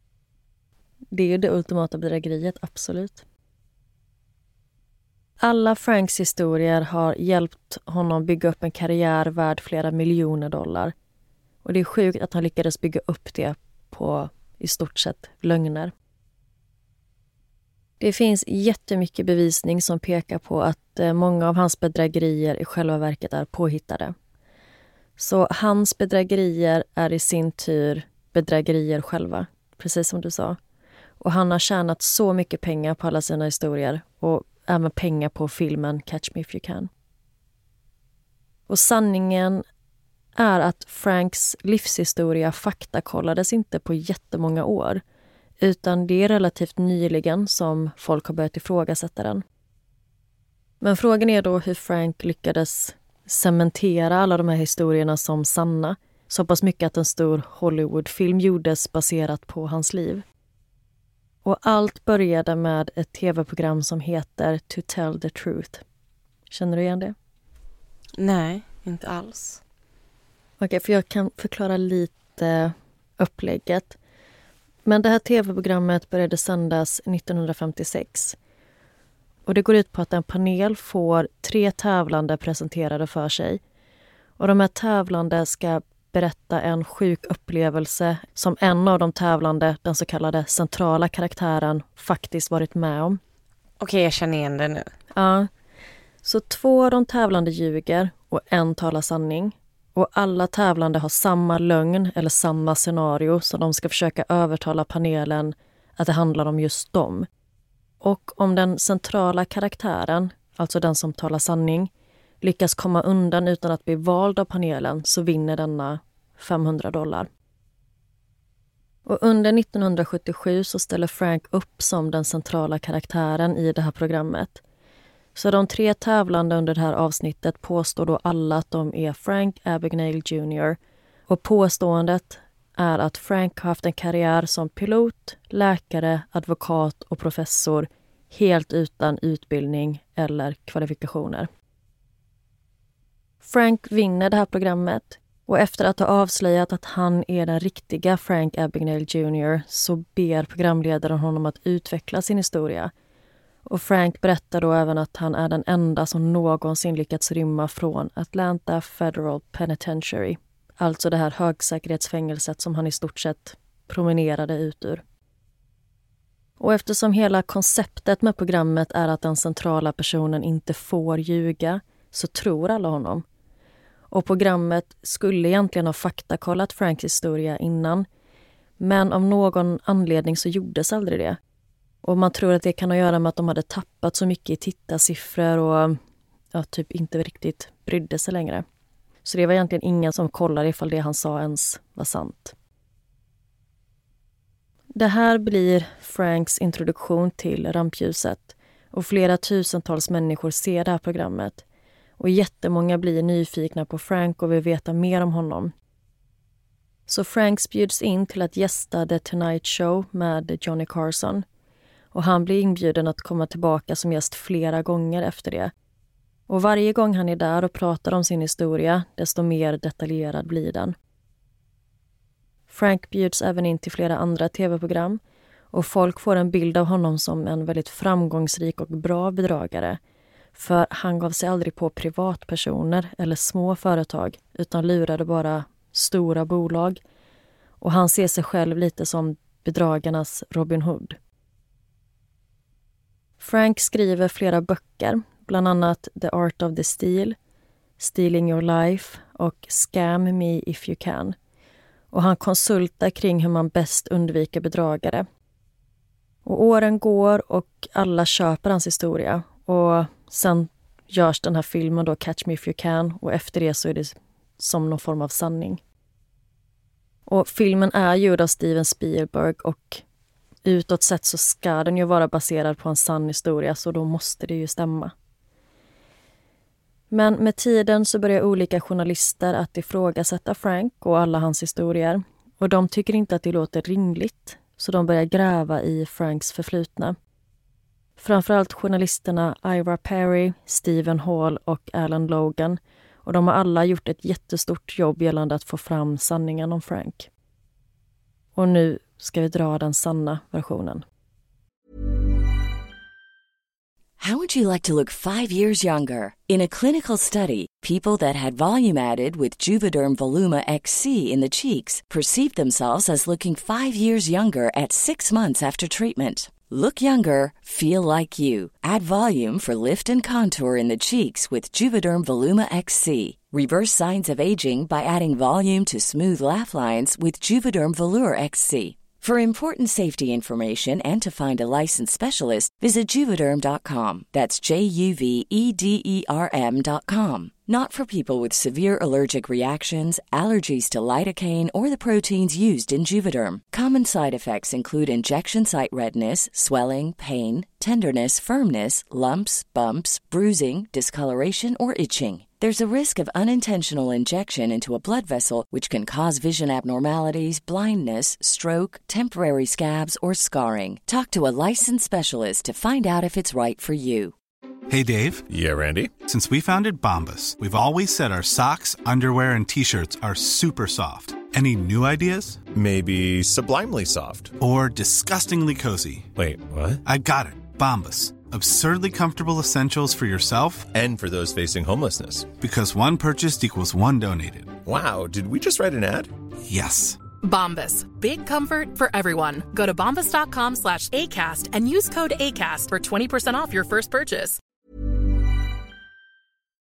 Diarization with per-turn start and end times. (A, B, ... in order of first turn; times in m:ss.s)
0:01.1-0:03.2 A
0:05.4-0:10.9 A
0:11.6-0:15.9 A
0:18.0-0:24.1 A
0:25.2-0:30.6 A
0:31.2-0:36.9 A
0:38.7-0:39.6 A
0:40.4-0:45.0 A
0:45.6-0:49.4 A
0:50.8-1:00.2 A
1:01.4-1:05.8 A
1:06.5-1:07.1 A
1:08.2-1:09.6 B
1:10.6-1:14.0 A
1:14.8-1:18.4 A
1:19.4-1:23.6 A
1:24.4-1:33.2 A
1:33.8-1:34.9 B
1:35.1-1:35.5 A
1:36.2-1:47.3 A
1:48.0-1:51.9 A
1:52.4-1:57.3 A
1:59.0-2:04.6 A
2:05.3-2:21.5 A
2:23.4-2:32.9 A
2:33.6-2:45.0 A
2:46.6-2:53.2 A
2:54.1-2:58.1 A
2:58.8-3:01.4 A
3:02.0-3:06.0 A
3:06.5-3:08.6 A
3:09.2-3:12.6 A
3:14.9-3:21.6 A
3:22.2-3:25.7 A
3:27.1-3:31.4 A
3:32.1-3:35.7 A
3:36.5-3:41.0 A
3:42.7-3:45.2 A
3:45.7-3:50.0 A
3:50.5-3:57.0 A
3:57.8-4:01.2 A
4:03.4-4:07.4 A
4:08.0-4:11.4 A
4:12.1-4:15.3 A
4:16.4-4:25.8 A
4:27.3-4:30.0 A
4:30.6-4:35.1 A
4:37.1-4:47.2 A
4:48.2-4:57.3 A
4:58.5-5:01.0 A
5:04.2-6:04.3 C
6:04.9-6:05.4 D
6:05.5-6:06.1 E
6:06.2-6:12.6 D
6:12.7-6:14.5 E
6:14.6-6:16.3 D
6:16.3-6:17.0 E
6:17.0-6:20.9 D
6:20.9-6:22.5 E
6:22.6-6:24.8 D
6:24.8-6:26.3 E
6:26.6-6:27.2 D
6:27.4-6:34.6 F